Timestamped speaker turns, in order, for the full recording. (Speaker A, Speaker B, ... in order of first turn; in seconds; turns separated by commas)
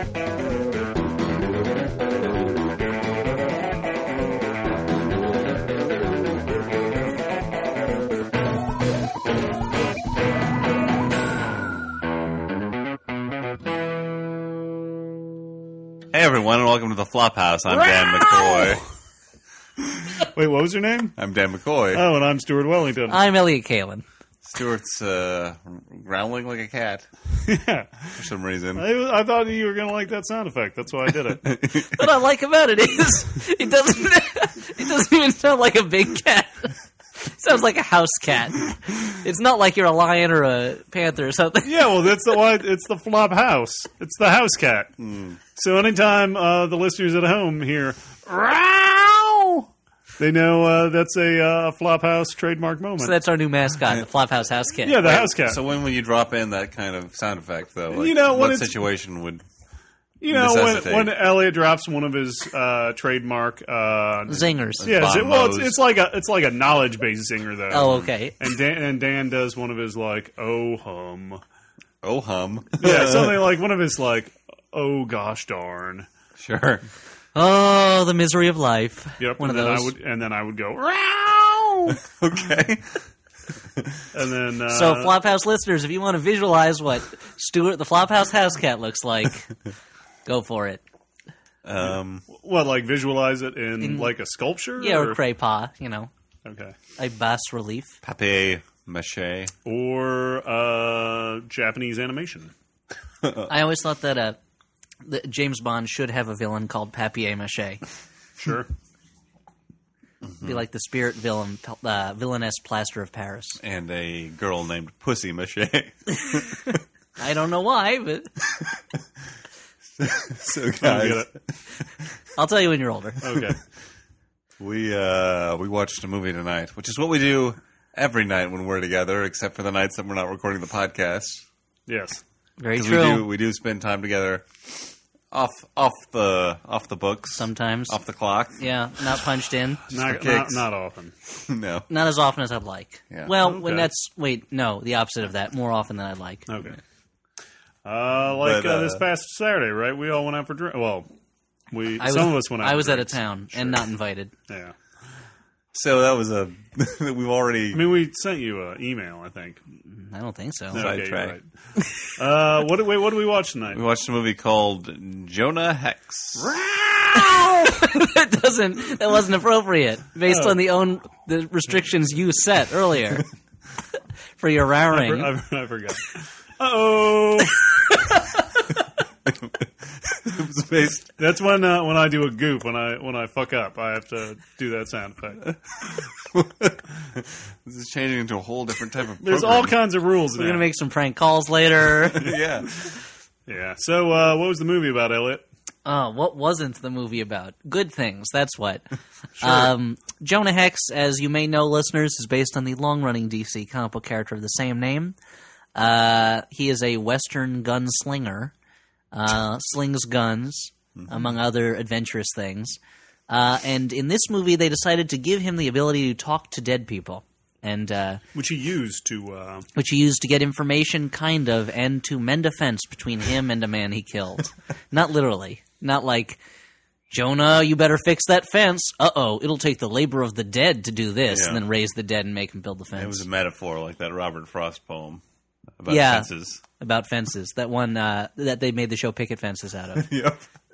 Speaker A: 16.1-18.8, Speaker B: 18.3-18.7, Speaker B: 20.3-21.1, Speaker A: 21.2-22.1, Speaker B: 21.9-23.2, Speaker C: 23.1-24.0, Speaker A: 24.4-27.1, Speaker B: 27.4-28.1, Speaker A: 28.2-28.8, Speaker B: 28.7-31.4, Speaker A: 31.4-32.0, Speaker C: 31.9-42.1, Speaker B: 41.6-44.9, Speaker A: 45.0-45.4, Speaker B: 45.5-53.2, Speaker C: 53.0-55.2, Speaker B: 54.8-55.6, Speaker A: 55.0-59.4, Speaker B: 57.9-58.7, Speaker B: 60.2-71.4, Speaker A: 60.3-61.2, Speaker C: 64.3-64.9, Speaker A: 64.8-65.8, Speaker C: 67.7-68.3, Speaker A: 67.8-68.1, Speaker A: 72.0-73.5, Speaker B: 72.8-76.1, Speaker A: 76.4-76.8, Speaker C: 77.3-79.9, Speaker B: 79.2-82.0, Speaker A: 82.0-83.0, Speaker A: 83.7-84.0, Speaker B: 84.1-85.2, Speaker C: 84.7-89.5, Speaker C: 90.2-90.8, Speaker A: 91.6-92.2, Speaker B: 92.3-95.2, Speaker C: 93.8-94.1, Speaker C: 94.8-96.1, Speaker B: 96.4-96.7, Speaker C: 97.0-98.0, Speaker A: 98.0-99.5, Speaker B: 99.6-102.5, Speaker C: 103.5-104.4, Speaker C: 105.0-107.8, Speaker B: 108.4-108.7, Speaker A: 110.2-110.5, Speaker C: 110.4-113.6, Speaker A: 113.6-116.7, Speaker C: 117.2-118.3, Speaker A: 120.0-122.0, Speaker B: 120.8-121.3, Speaker C: 122.3-123.2, Speaker B: 123.2-123.6, Speaker A: 124.6-131.4, Speaker B: 131.9-132.2, Speaker C: 132.6-133.2, Speaker A: 132.7-138.6, Speaker C: 137.3-138.0, Speaker C: 138.6-139.8, Speaker A: 139.9-140.7, Speaker B: 139.9-141.1, Speaker A: 141.3-141.9, Speaker C: 141.9-146.5, Speaker B: 143.4-143.9, Speaker B: 146.5-146.8, Speaker B: 147.8-151.1, Speaker A: 148.4-149.0, Speaker B: 151.7-153.8, Speaker C: 152.0-154.3, Speaker B: 154.5-154.7, Speaker A: 155.7-157.9, Speaker B: 157.7-159.6, Speaker C: 159.9-160.9, Speaker B: 160.7-161.4, Speaker A: 160.7-161.4, Speaker B: 162.1-163.8, Speaker A: 163.7-166.5, Speaker B: 166.4-167.7, Speaker C: 167.1-173.3, Speaker B: 170.2-170.6, Speaker C: 174.4-175.3, Speaker B: 174.9-177.7, Speaker C: 177.9-178.3, Speaker A: 179.3-181.1, Speaker B: 181.2-185.4, Speaker A: 185.8-189.8, Speaker B: 189.2-190.7, Speaker C: 190.3-192.3, Speaker A: 192.0-192.7, Speaker B: 193.5-195.4, Speaker C: 195.8-198.8, Speaker B: 199.4-199.7, Speaker C: 199.4-205.2, Speaker C: 205.7-208.5, Speaker C: 209.1-212.8, Speaker C: 213.3-218.2, Speaker B: 218.3-219.7, Speaker C: 219.7-226.4, Speaker C: 227.1-233.2, Speaker A: 231.3-231.6, Speaker A: 232.9-235.2, Speaker A: 235.8-236.6, Speaker C: 235.9-240.1, Speaker A: 239.9-240.4